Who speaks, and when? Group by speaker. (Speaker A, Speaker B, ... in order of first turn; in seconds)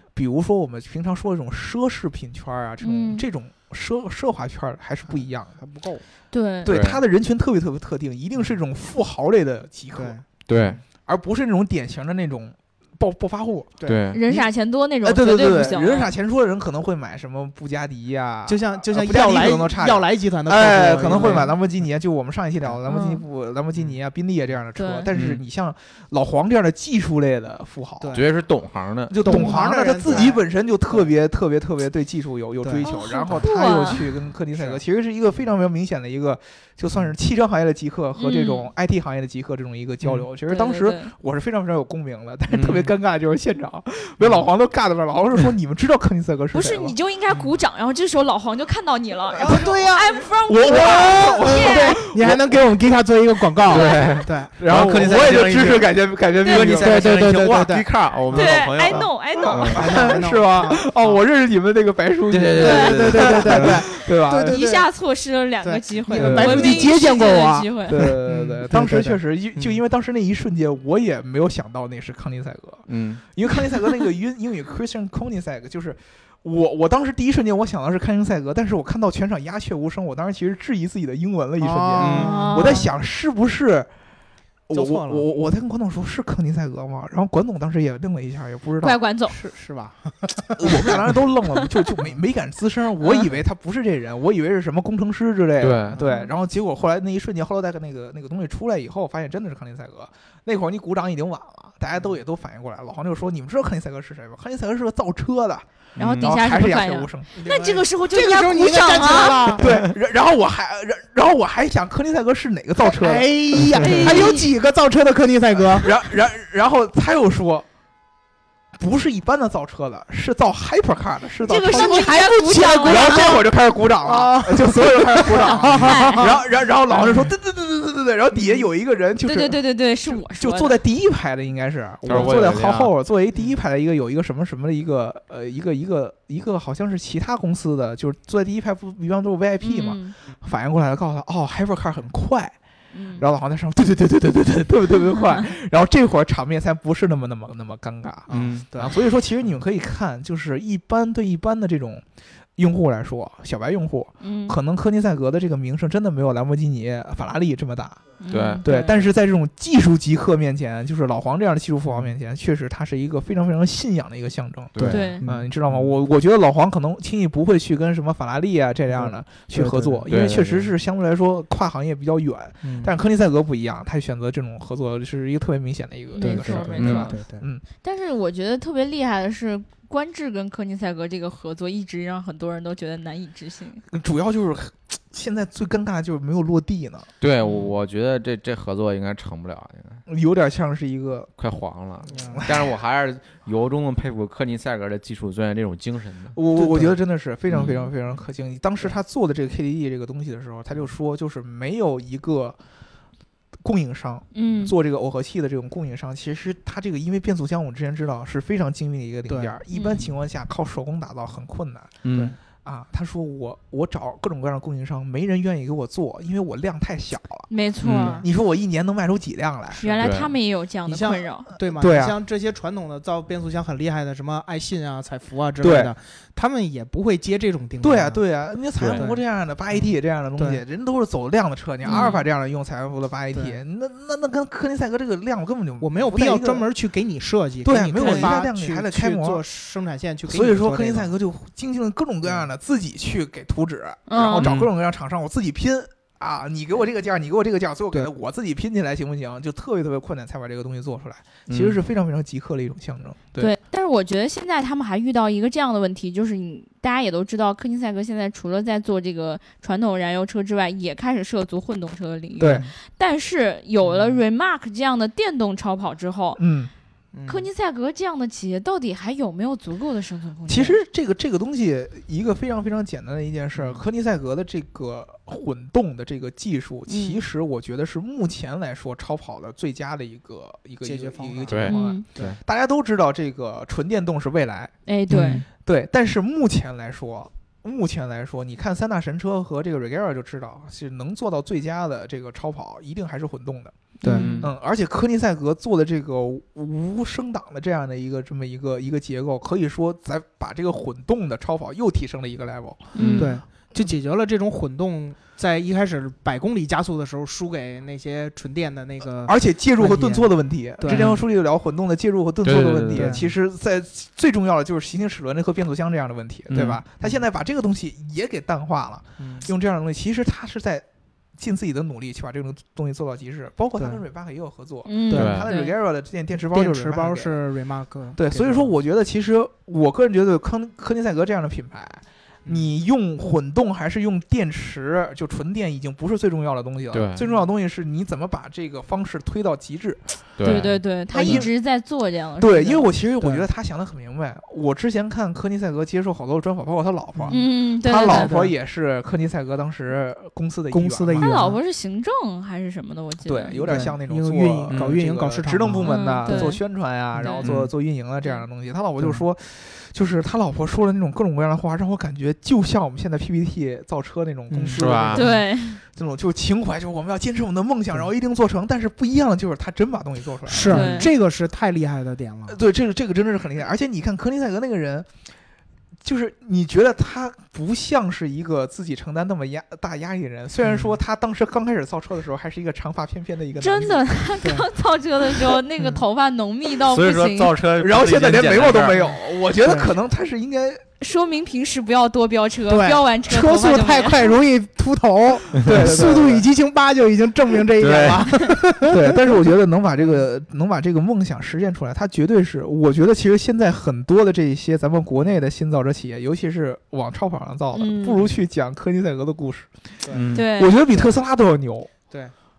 Speaker A: 0.1-5.5, 6.7-10.2, 11.1-13.7, 14.2-14.5, 15.0-28.2, 29.1-47.0, 49.4-49.7, 50.5-52.5, 54.6-57.0, 59.5-64.6, 66.1-66.9, 67.9-83.9, 84.7-89.0, 90.6-105.7, 106.2-107.3, 109.5-114.3, 115.8-117.7, 118.8-142.6, 143.2-152.0, 152.6-158.1, 158.6-177.6, 183.9-187.1, 190.1-191.3, 192.4-192.7, 196.3-202.6, 203.6-211.9, 212.7-217.5, 218.2-219.9, 221.7-222.2, 225.6-225.9, 227.8-236.7, 237.6-239.4, 240.3-253.5, 262.4-262.7, 266.4-266.7, 270.5-293.7, 294.4-302.9, 309.2-320.9, 321.4-327.4, 328.1-341.5, 342.4-351.3, 353.2-371.1, 372.5-375.1, 376.0-384.1, 387.8-390.8, 395.5-396.5, 398.8-409.9, 410.5-411.9
Speaker B: 2.8-3.2, 6.3-6.7, 14.1-16.1, 22.9-23.2, 24.8-25.1, 29.3-29.6, 32.8-34.1, 38.2-38.7, 40.5-41.1, 46.5-52.0, 56.4-56.7, 58.3-60.2, 62.6-63.0, 64.5-68.0, 82.1-82.9, 88.8-89.4, 106.0-109.6, 113.7-114.5, 121.4-123.4, 125.8-126.3, 129.2-130.8, 139.6-140.1, 142.9-143.2, 154.2-154.6, 158.2-158.9, 164.9-165.2, 176.2-177.2, 177.8-183.8, 204.3-204.7, 209.7-210.0, 217.5-218.3, 219.7-221.5, 231.8-232.2, 238.0-238.3, 244.1-244.5, 253.4-266.4, 267.3-270.8, 276.9-277.2, 281.7-282.1, 284.9-285.4, 294.0-294.5, 302.9-303.4, 324.9-325.7, 340.4-342.9, 347.3-348.3, 351.2-353.8, 355.8-356.6, 357.2-357.5, 365.1-365.8, 370.7-371.1, 383.6-387.6, 391.0-394.4, 407.7-408.3, 410.3-410.8
Speaker C: 5.1-6.0, 9.9-10.2, 18.5-21.6, 28.0-28.3, 29.2-31.1, 32.6-32.9, 34.5-34.8, 49.4-54.5, 56.8-58.6, 59.4-61.2, 62.5-64.9, 65.6-69.8, 81.6-82.8, 84.7-85.2, 89.3-91.1, 95.9-96.3, 107.4-109.7, 112.8-116.0, 121.7-123.4, 124.0-127.3, 148.3-149.0, 164.8-165.5, 168.9-170.1, 172.6-172.9, 176.2-177.4, 192.1-192.4, 196.6-196.9, 209.3-209.6, 212.1-212.4, 217.9-218.3, 220.9-228.2, 229.0-230.6, 233.3-233.6, 235.8-241.1, 262.5-262.7, 263.8-264.2, 267.1-267.5, 273.6-273.8, 280.8-282.4, 303.2-311.1, 312.9-313.3, 316.6-317.2, 319.2-319.5, 326.4-328.7, 343.2-343.5, 347.1-347.4, 348.0-348.5, 350.7-351.6, 353.6-356.5, 357.1-357.4, 359.0-359.2, 364.5-365.4, 370.5-372.6, 380.6-380.9, 384.4-384.7, 388.9-389.9, 392.7-399.3, 400.0-400.2
Speaker D: 6.7-7.0, 10.5-10.8, 13.8-14.2, 25.1-25.4, 28.1-29.1, 42.5-42.9, 53.7-59.1, 62.3-63.8, 72.9-73.2, 82.0-82.4, 95.6-96.0, 106.0-106.3, 132.1-132.9, 148.3-148.7, 158.3-158.6, 164.7-165.1, 170.1-170.7, 176.8-177.1, 187.2-190.0, 191.4-196.4, 197.5-197.9, 212.0-212.3, 217.8-218.2, 220.0-220.3, 228.8-229.1, 244.4-244.7, 251.5-251.8, 281.5-282.4, 294.1-294.5, 303.0-303.4, 310.9-311.2, 312.4-313.2, 316.5-316.8, 325.1-325.5, 336.9-337.2, 340.4-341.5, 354.7-355.0, 357.4-357.7, 364.8-365.3, 386.9-388.9, 397.8-398.3, 410.1-410.5